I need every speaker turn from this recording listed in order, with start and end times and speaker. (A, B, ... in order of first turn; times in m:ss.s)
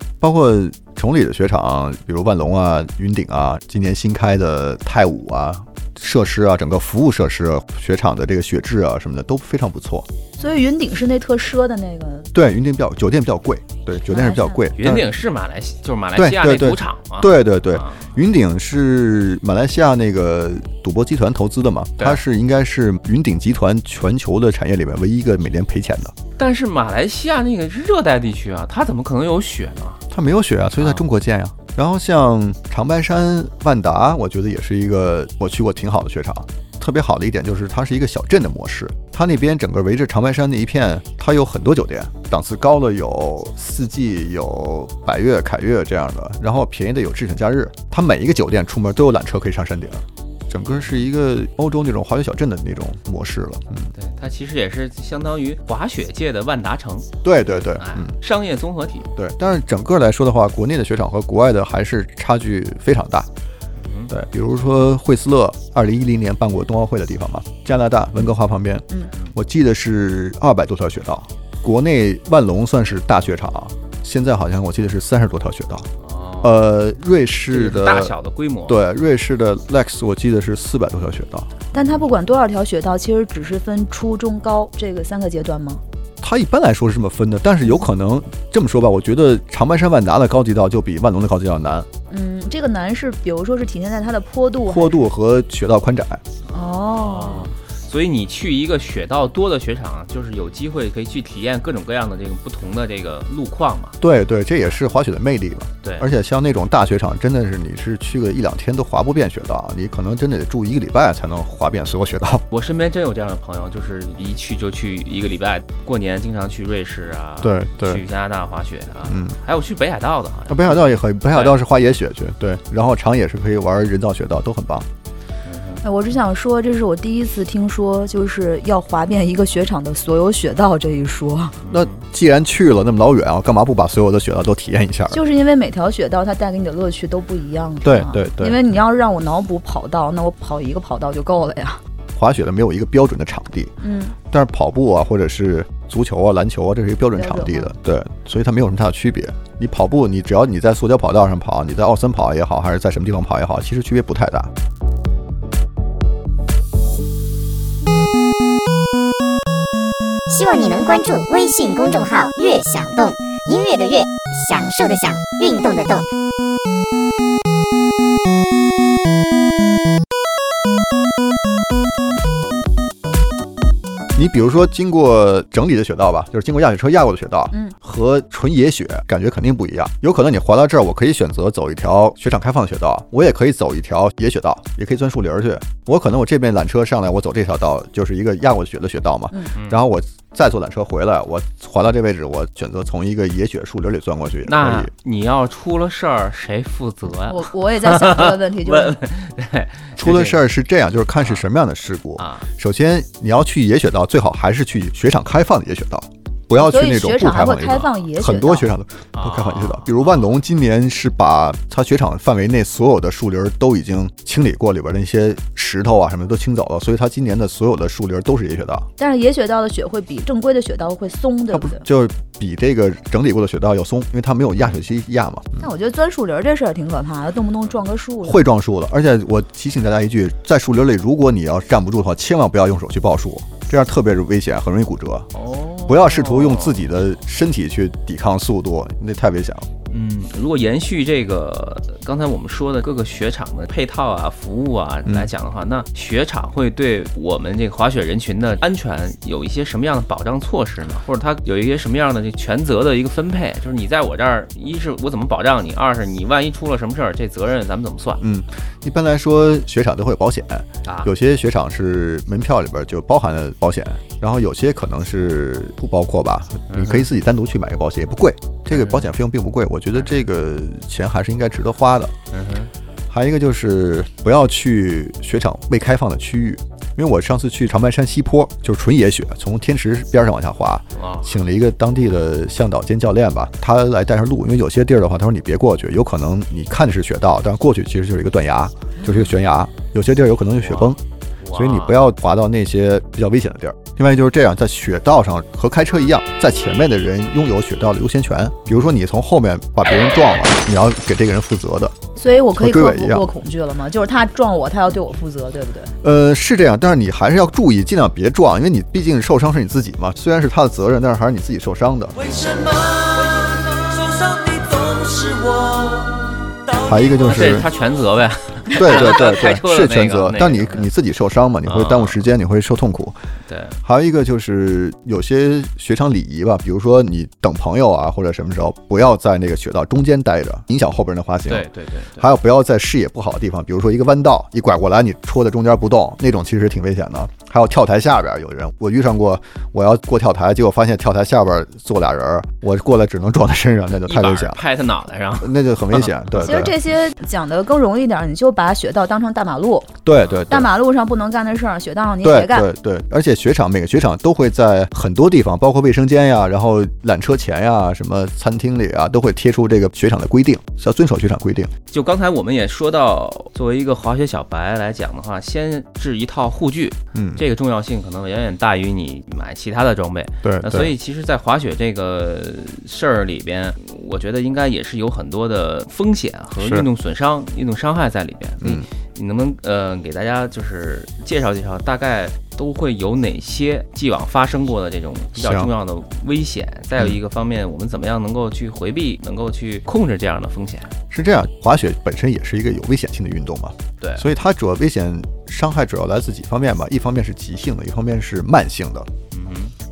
0:00.2-0:10.1 A
0:10.4-0:12.3 B
0:12.3-0:15.1 A
0:14.1-0:14.6 B
0:14.8-0:18.0 C
0:16.2-0:26.2 A
0:26.4-0:30.0 C
0:30.1-0:53.9 A
0:30.8-0:31.0 C
0:50.7-0:51.0 C
0:54.0-0:57.1 C
0:57.2-0:58.2 A
0:57.8-0:59.1 C
0:59.2-1:03.3 A
1:03.8-1:04.1 C
1:04.1-1:15.9 A
1:16.0-1:16.6 C
1:16.4-1:18.2 A
1:17.5-1:18.8 C
1:18.7-1:21.5 A
1:21.7-1:25.8 B
1:26.2-1:31.9 A
1:32.1-1:35.0 B
1:34.7-1:36.2 A
1:36.5-1:37.5 B
1:36.6-1:44.0 C
1:44.0-1:52.4 A
1:45.8-1:46.1 C
1:52.5-2:01.6 C
1:57.4-1:58.0 A
1:59.0-1:59.4 A
2:00.5-2:04.9 A
2:05.5-2:05.8 C
2:05.8-2:11.6 B
2:11.6-2:12.0 C
2:11.7-2:15.2 A
2:15.1-2:21.8 B
2:17.8-2:18.6 A
2:22.2-2:23.7 A
2:23.8-2:24.2 B
2:24.3-2:34.5 A
2:27.2-2:27.7 B
2:40.3-2:46.1 D
2:54.2-3:14.9 A
3:09.6-3:09.8 C
3:14.5-3:20.4 C
3:17.3-3:19.0 B
3:20.0-3:38.9 A
3:22.2-3:22.5 C
3:26.6-3:28.7 B
3:29.2-3:30.3 C
3:39.0-3:41.9 B
3:41.5-3:45.6 A
3:45.6-3:48.5 B
3:48.2-3:55.3 A
3:55.4-3:56.8 C
3:55.9-3:59.7 A
3:59.9-4:18.2 C
4:05.1-4:05.3 A
4:18.2-4:32.1 A
4:26.7-4:27.1 C
4:28.7-4:29.1 C
4:32.3-4:32.7 C
4:33.1-4:51.0 A
4:41.0-4:41.4 C
4:50.6-4:52.0 C
4:51.5-5:01.9 A
5:02.2-5:05.9 B
5:02.6-5:03.3 A
5:06.0-5:12.2 A
5:12.2-5:17.0 E
5:16.8-5:17.7 A
5:17.2-5:20.9 C
5:18.7-5:23.2 A
5:21.7-5:22.2 C
5:23.5-5:23.8 C
5:23.8-5:44.6 A
5:31.5-5:32.3 C
5:44.1-5:46.1 C
5:45.4-5:46.7 A
5:46.4-5:49.9 B
5:50.0-5:50.7 A
5:50.2-5:50.5 C
5:50.5-5:52.7 B
5:52.2-6:01.7 A
6:01.9-6:30.9 C
6:07.1-6:07.4 A
6:10.4-6:11.0 A
6:16.6-6:16.9 A
6:18.6-6:18.9 A
6:25.4-6:25.7 A
6:31.1-6:39.1 A
6:34.0-6:34.3 C
6:39.3-6:39.7 C